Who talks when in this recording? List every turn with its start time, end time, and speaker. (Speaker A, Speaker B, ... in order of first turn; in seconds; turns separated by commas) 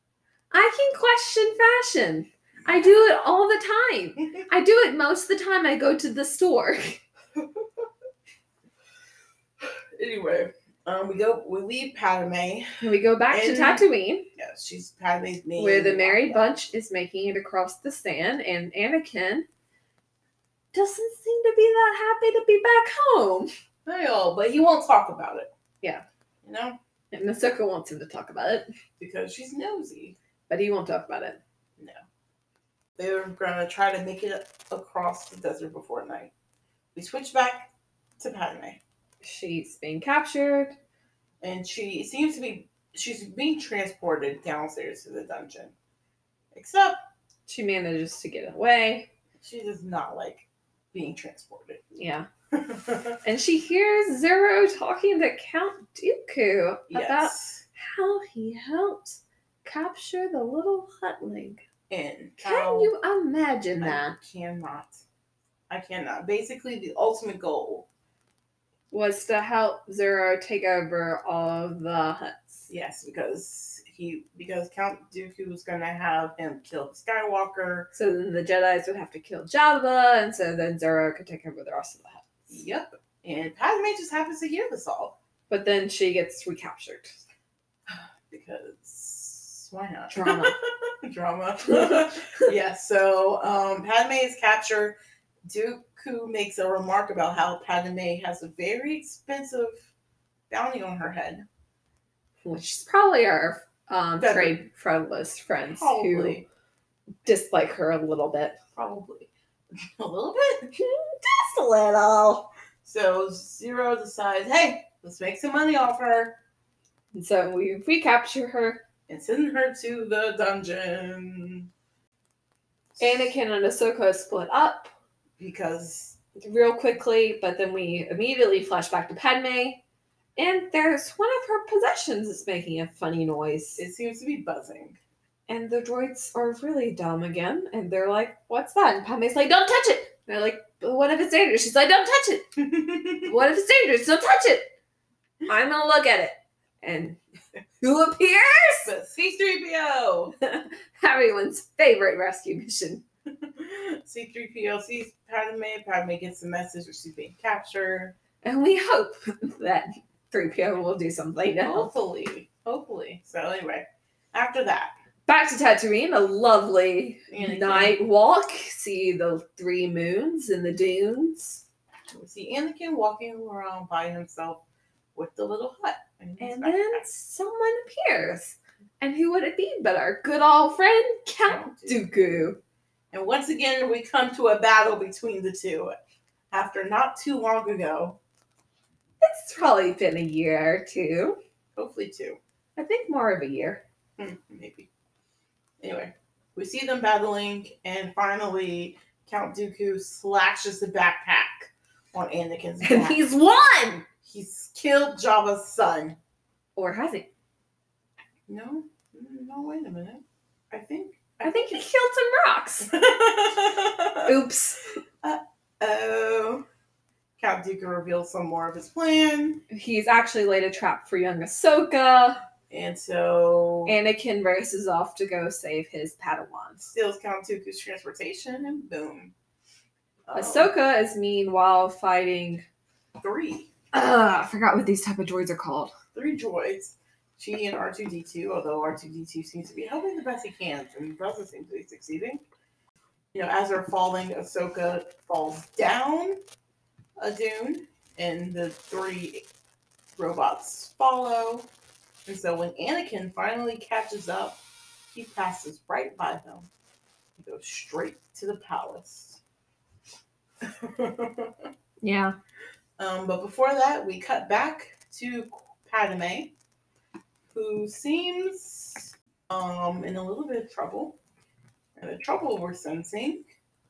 Speaker A: 0.5-7.0, Speaker B: 7.4-7.6, Speaker B: 9.9-16.5, Speaker A: 12.8-14.3, Speaker A: 15.6-19.5, Speaker A: 20.7-23.5, Speaker B: 23.9-25.5, Speaker B: 26.4-26.8, Speaker A: 27.1-28.7, Speaker B: 29.0-30.1, Speaker A: 30.5-31.4, Speaker B: 33.0-36.3, Speaker B: 36.9-38.8, Speaker A: 39.2-40.7, Speaker B: 41.4-45.7, Speaker B: 46.5-47.0, Speaker A: 47.5-49.1, Speaker B: 49.4-51.8, Speaker A: 51.9-52.3, Speaker B: 52.5-53.2, Speaker A: 53.2-61.6, Speaker B: 56.9-57.6, Speaker B: 61.9-62.9, Speaker A: 62.4-64.2, Speaker B: 63.8-65.0, Speaker B: 65.7-67.9, Speaker A: 68.9-72.7, Speaker B: 72.7-77.9, Speaker A: 77.9-82.3, Speaker B: 82.5-85.2, Speaker A: 85.5-87.2, Speaker B: 87.9-95.0, Speaker A: 90.1-90.5, Speaker A: 91.7-92.4, Speaker B: 95.5-99.8, Speaker B: 100.5-101.5, Speaker A: 102.4-106.4, Speaker B: 104.2-104.6, Speaker B: 105.7-106.4, Speaker A: 107.2-108.6, Speaker B: 108.7-109.3, Speaker B: 110.0-110.7, Speaker A: 110.7-112.5, Speaker B: 112.8-116.4, Speaker A: 117.1-118.8, Speaker B: 119.1-121.7, Speaker B: 123.0-123.3, Speaker A: 123.0-124.9, Speaker B: 125.4-126.2, Speaker A: 126.3-129.8, Speaker A: 130.3-133.8, Speaker B: 133.8-135.0, Speaker A: 135.5-142.6, Speaker B: 142.6-143.3, Speaker A: 143.2-144.7, Speaker A: 145.4-147.2, Speaker A: 147.8-148.9, Speaker B: 148.8-150.3, Speaker A: 150.4-153.0, Speaker B: 153.4-158.1, Speaker A: 158.4-161.9, Speaker B: 161.6-164.9, Speaker A: 165.3-171.6, Speaker B: 167.3-168.0, Speaker B: 172.1-174.6, Speaker B: 175.1-177.0, Speaker A: 176.4-182.6, Speaker B: 181.4-182.5, Speaker B: 183.1-185.9, Speaker B: 186.5-188.2, Speaker A: 189.2-191.4, Speaker B: 191.8-192.4, Speaker A: 192.8-193.8, Speaker B: 194.2-194.9, Speaker B: 195.8-203.2, Speaker A: 202.8-204.1, Speaker B: 204.2-206.2, Speaker A: 206.8-207.3, Speaker B: 208.5-211.8, Speaker A: 211.4-212.9, Speaker B: 212.8-214.3, Speaker A: 214.2-214.9, Speaker B: 215.2-216.6, Speaker B: 217.4-219.6, Speaker A: 219.7-222.4, Speaker B: 222.7-224.0, Speaker A: 223.8-226.9, Speaker B: 226.9-229.3, Speaker B: 230.3-230.7, Speaker A: 230.3-232.6, Speaker B: 233.2-233.7, Speaker A: 233.9-235.9, Speaker B: 236.1-242.4, Speaker B: 243.3-246.4, Speaker B: 247.2-249.4, Speaker B: 250.2-251.7, Speaker B: 252.3-254.6, Speaker B: 255.1-256.7, Speaker B: 257.4-259.4, Speaker B: 260.6-261.7, Speaker A: 262.0-262.4, Speaker B: 263.0-266.5, Speaker B: 267.5-271.2, Speaker B: 272.0-273.5